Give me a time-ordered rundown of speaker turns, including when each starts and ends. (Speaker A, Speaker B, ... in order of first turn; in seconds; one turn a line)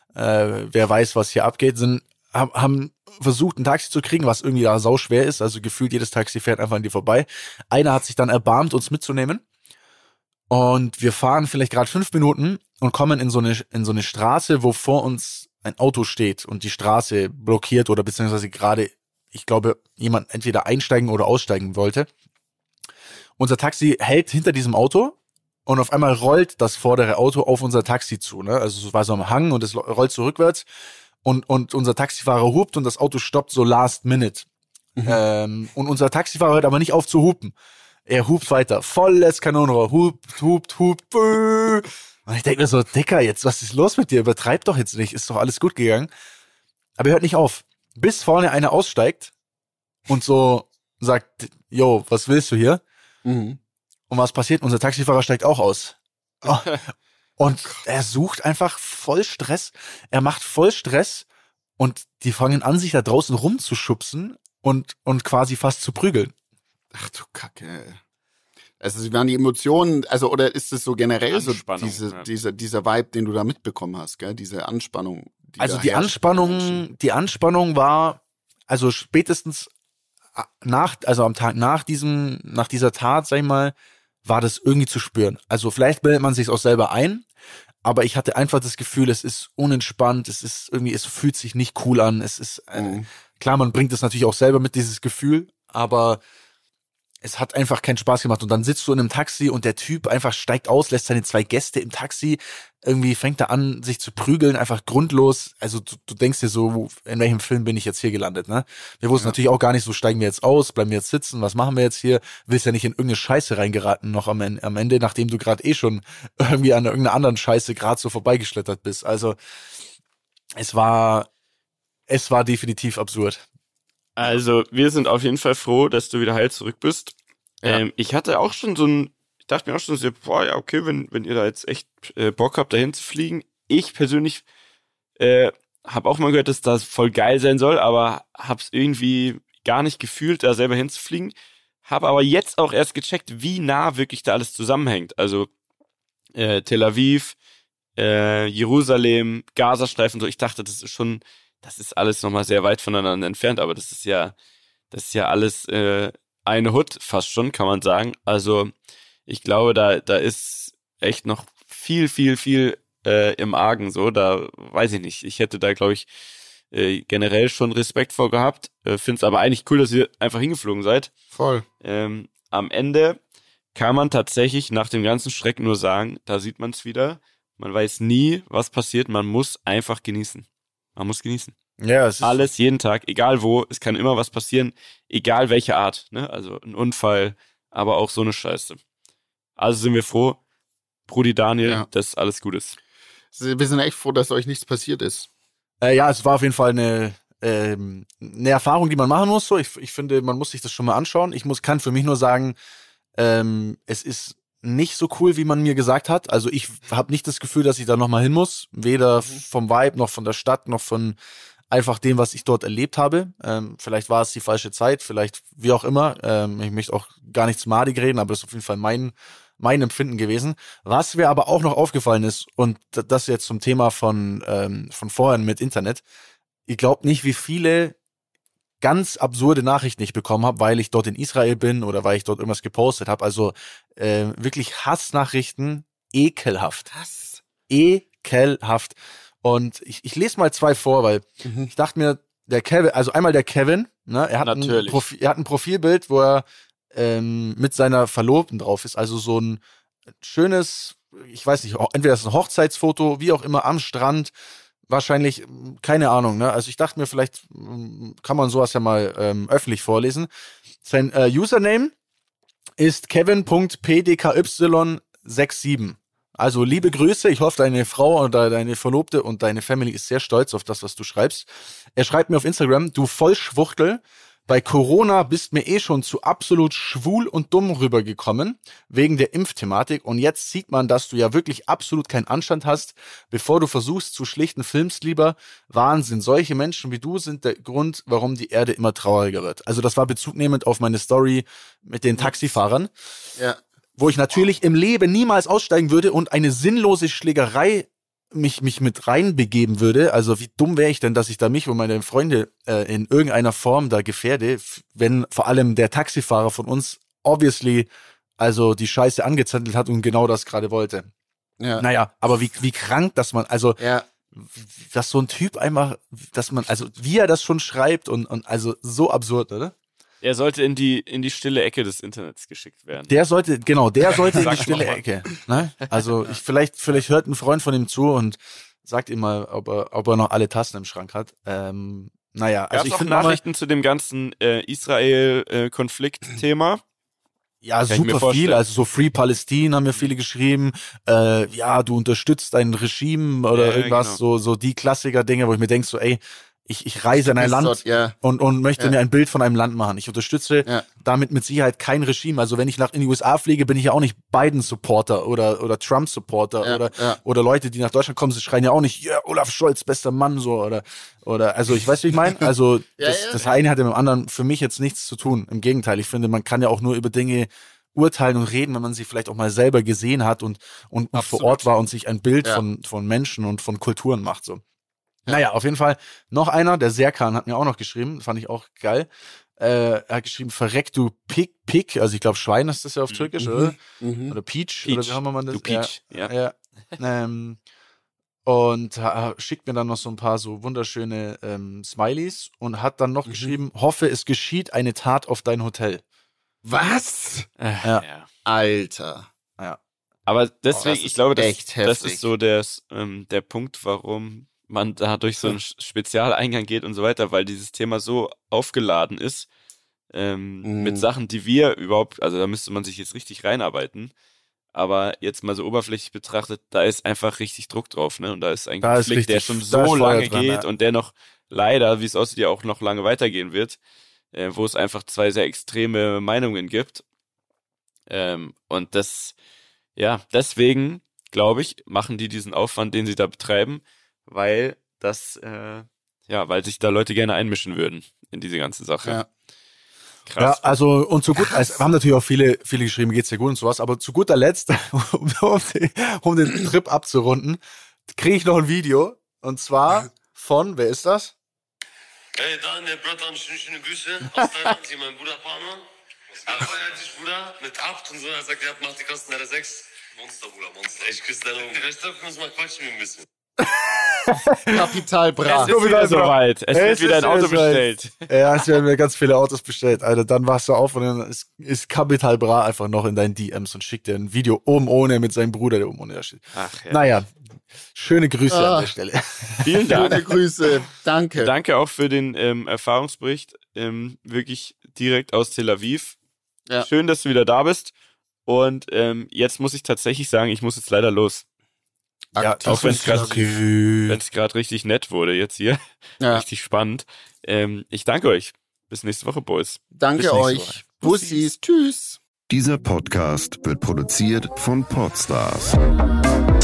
Speaker A: 0.1-9.4
Speaker A: 10.5-22.1
Speaker A: 23.4-30.6
Speaker A: 31.2-34.5
Speaker A: 35.0-37.5
Speaker A: 38.1-46.1
Speaker A: 47.0-49.3
Speaker A: 50.1-52.8
Speaker B: 53.2-53.6
Speaker A: 54.1-56.8
Speaker C: 56.5-56.8
Speaker A: 57.4-61.2
Speaker A: 61.8-66.3
Speaker B: 66.9-68.0
Speaker B: 68.8-76.8
Speaker C: 71.3-72.2
Speaker A: 75.6-79.7
Speaker A: 80.3-83.7
Speaker A: 84.2-87.2
Speaker A: 87.8-96.2
Speaker B: 92.7-93.0
Speaker A: 97.2-119.8
Speaker A: 120.6-121.3
Speaker A: 122.1-123.4
Speaker C: 124.2-134.4
Speaker C: 135.2-141.3
Speaker C: 141.8-145.5
Speaker C: 146.3-147.3
Speaker C: 148.0-154.3
Speaker C: 154.9-158.7
Speaker C: 159.3-166.1
Speaker C: 166.7-171.1
Speaker B: 171.3-171.6
Speaker C: 171.8-173.2
Speaker C: 173.7-181.5
Speaker A: 181.8-182.5
Speaker C: 182.2-188.8
Speaker C: 189.6-190.4
Speaker C: 191.1-192.8
Speaker B: 193.3-195.3
Speaker A: 195.8-202.6
Speaker A: 203.2-211.2
Speaker A: 211.7-226.0
Speaker A: 226.7-227.9
Speaker A: 228.8-236.9
Speaker B: 236.9-237.4
Speaker A: 237.7-249.6
Speaker B: 241.4-241.7
Speaker C: 244.4-245.0
Speaker A: 250.2-254.3
Speaker A: 254.9-260.3
Speaker A: 260.8-261.9
Speaker A: 262.8-292.9
Speaker A: 294.0-307.9
Speaker A: 308.4-311.1
Speaker B: 311.6-311.8
Speaker A: 311.8-313.8
Speaker B: 313.8-314.1
Speaker A: 314.3-319.7
Speaker C: 320.2-323.1
Speaker A: 323.1-333.4
Speaker C: 324.2-325.0
Speaker C: 332.7-336.8
Speaker A: 337.6-374.6
Speaker C: 337.9-338.6
Speaker C: 343.5-344.2
Speaker B: 347.1-348.1
Speaker B: 356.6-357.2
Speaker B: 363.0-363.4
Speaker B: 371.2-371.5
Speaker A: 375.3-383.8
Speaker B: 383.4-384.4
Speaker A: 384.3-387.6
Speaker C: 384.8-386.3
Speaker A: 388.4-396.0
Speaker B: 393.3-393.5
Speaker B: 396.6-397.5
Speaker C: 397.6-398.3
Speaker B: 398.4-399.3
Speaker C: 400.3-409.5
Speaker B: 400.8-402.3
Speaker C: 410.1-414.1
Speaker B: 410.6-411.0
Speaker C: 414.7-423.8
Speaker A: 418.8-420.6
Speaker C: 424.3-427.0
Speaker C: 428.1-429.3
Speaker C: 429.9-439.2
Speaker C: 440.3-440.7
Speaker A: 440.4-451.3
Speaker B: 441.5-441.8
Speaker D: 452.4-463.2
Speaker A: 464.0-464.8
Speaker B: 464.6-465.8
Speaker C: 465.4-468.3
Speaker A: 465.5-477.3
Speaker C: 476.5-477.0
Speaker A: 477.9-480.2
Speaker B: 478.5-478.9
Speaker C: 479.6-480.3
Speaker B: 479.9-481.5
Speaker C: 481.4-486.2
Speaker C: 486.8-487.9
Speaker C: 488.4-491.4
Speaker B: 492.3-493.4
Speaker A: 492.4-494.2
Speaker C: 492.6-493.6
Speaker C: 494.1-495.8
Speaker C: 496.3-499.8
Speaker B: 499.9-502.2
Speaker A: 500.1-501.4
Speaker E: 502.5-505.8